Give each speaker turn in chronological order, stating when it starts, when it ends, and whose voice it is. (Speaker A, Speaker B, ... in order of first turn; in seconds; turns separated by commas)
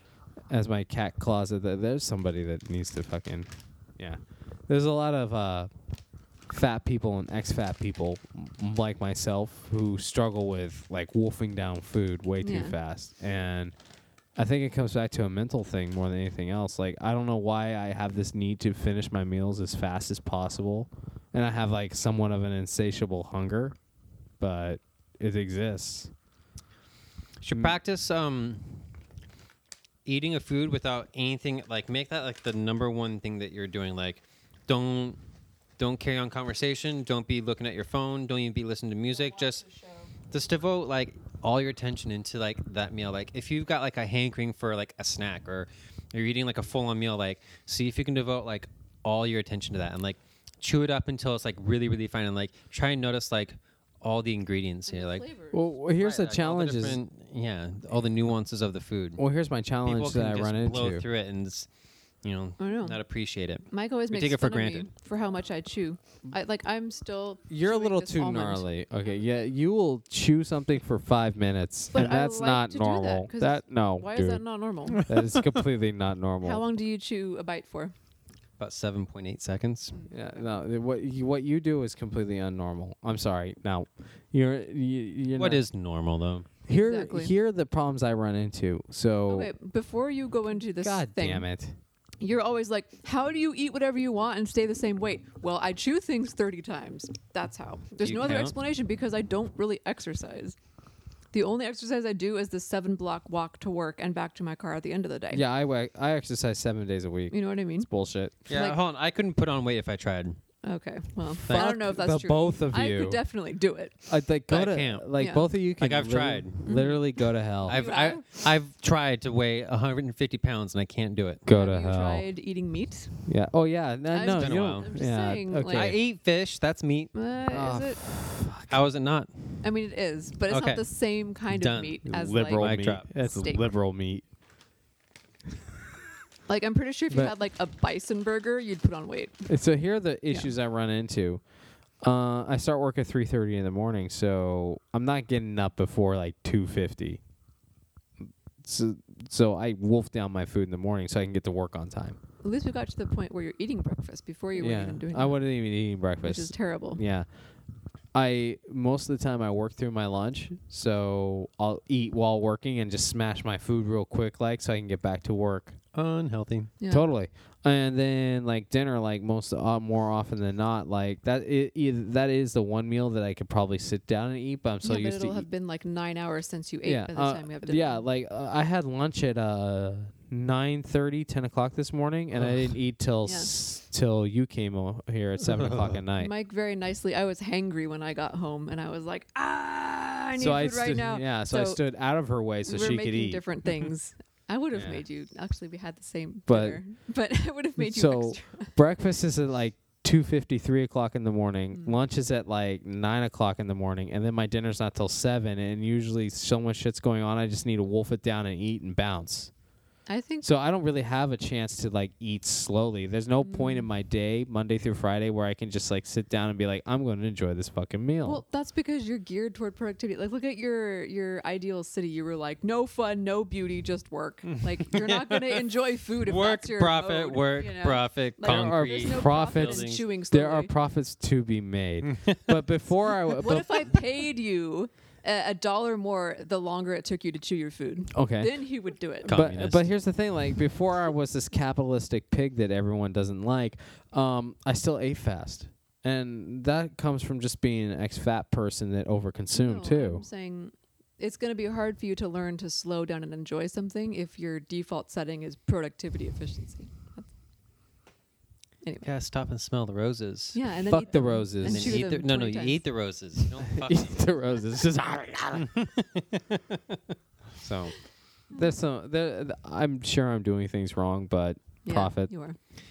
Speaker A: 0.5-5.7, Speaker A: 6.5-13.7, Speaker B: 12.4-12.8, Speaker A: 14.3-23.8, Speaker A: 24.4-26.1, Speaker C: 27.4-28.9, Speaker C: 30.0-35.2, Speaker C: 35.8-39.6, Speaker B: 39.1-40.1, Speaker C: 40.3-55.3, Speaker B: 54.9-55.7, Speaker A: 55.5-57.0, Speaker C: 56.0-59.2, Speaker A: 59.2-61.0, Speaker C: 59.8-61.7, Speaker C: 62.2-64.9, Speaker B: 62.6-63.0, Speaker B: 63.7-68.7, Speaker A: 67.5-74.4, Speaker B: 71.9-75.1, Speaker C: 75.0-75.6, Speaker A: 75.0-76.6, Speaker B: 76.4-77.9, Speaker C: 78.6-80.0, Speaker A: 80.1-85.6, Speaker C: 85.3-86.5, Speaker A: 86.7-89.5, Speaker B: 86.7-87.3, Speaker B: 89.3-91.5, Speaker A: 90.8-91.7, Speaker B: 92.2-100.6, Speaker C: 98.0-98.5, Speaker B: 101.3-105.4, Speaker A: 105.3-108.4, Speaker B: 107.3-107.9, Speaker C: 108.5-110.4, Speaker B: 108.5-108.8, Speaker B: 110.6-114.1, Speaker A: 111.3-113.2, Speaker C: 111.5-111.7, Speaker A: 114.1-117.8, Speaker C: 114.5-115.1, Speaker B: 115.2-115.5, Speaker C: 115.8-116.9, Speaker B: 116.7-118.2, Speaker C: 117.6-121.4, Speaker A: 121.5-122.2, Speaker B: 121.5-123.2, Speaker A: 123.2-126.0, Speaker B: 124.1-126.0, Speaker C: 124.3-124.9, Speaker C: 125.7-127.1, Speaker B: 127.1-128.0, Speaker A: 127.5-128.8, Speaker C: 128.7-129.6, Speaker B: 129.6-133.7, Speaker C: 130.5-130.8, Speaker C: 131.5-132.0, Speaker A: 132.1-134.2, Speaker C: 132.6-133.1, Speaker B: 136.5-139.5, Speaker A: 139.5-141.4, Speaker A: 142.0-147.2, Speaker A: 148.6-152.2, Speaker B: 152.4-155.4, Speaker A: 154.6-157.3, Speaker B: 156.2-157.0, Speaker A: 158.1-165.7, Speaker C: 165.9-166.7, Speaker B: 166.8-167.1, Speaker A: 166.9-175.5, Speaker B: 174.8-178.1, Speaker A: 176.8-186.3, Speaker C: 182.3-182.7, Speaker B: 183.2-183.5, Speaker C: 185.4-186.0, Speaker B: 186.2-191.8, Speaker A: 190.4-193.4, Speaker B: 192.6-198.8, Speaker A: 194.7-195.0, Speaker A: 196.5-196.8, Speaker A: 197.8-209.5, Speaker B: 210.1-210.5, Speaker A: 210.4-218.4, Speaker B: 213.4-213.9, Speaker B: 218.2-230.7, Speaker C: 224.5-225.7, Speaker C: 226.2-230.0, Speaker A: 228.4-233.9, Speaker C: 232.0-232.6, Speaker B: 233.3-239.4, Speaker A: 238.1-238.6, Speaker A: 239.2-250.2, Speaker C: 239.2-239.9, Speaker B: 249.5-257.3, Speaker B: 258.8-259.1, Speaker C: 259.0-260.6, Speaker B: 260.5-262.8, Speaker A: 260.9-262.0, Speaker C: 261.6-264.3, Speaker A: 263.7-265.8, Speaker C: 265.6-267.0, Speaker A: 267.6-268.0, Speaker A: 268.5-272.3, Speaker B: 271.8-272.6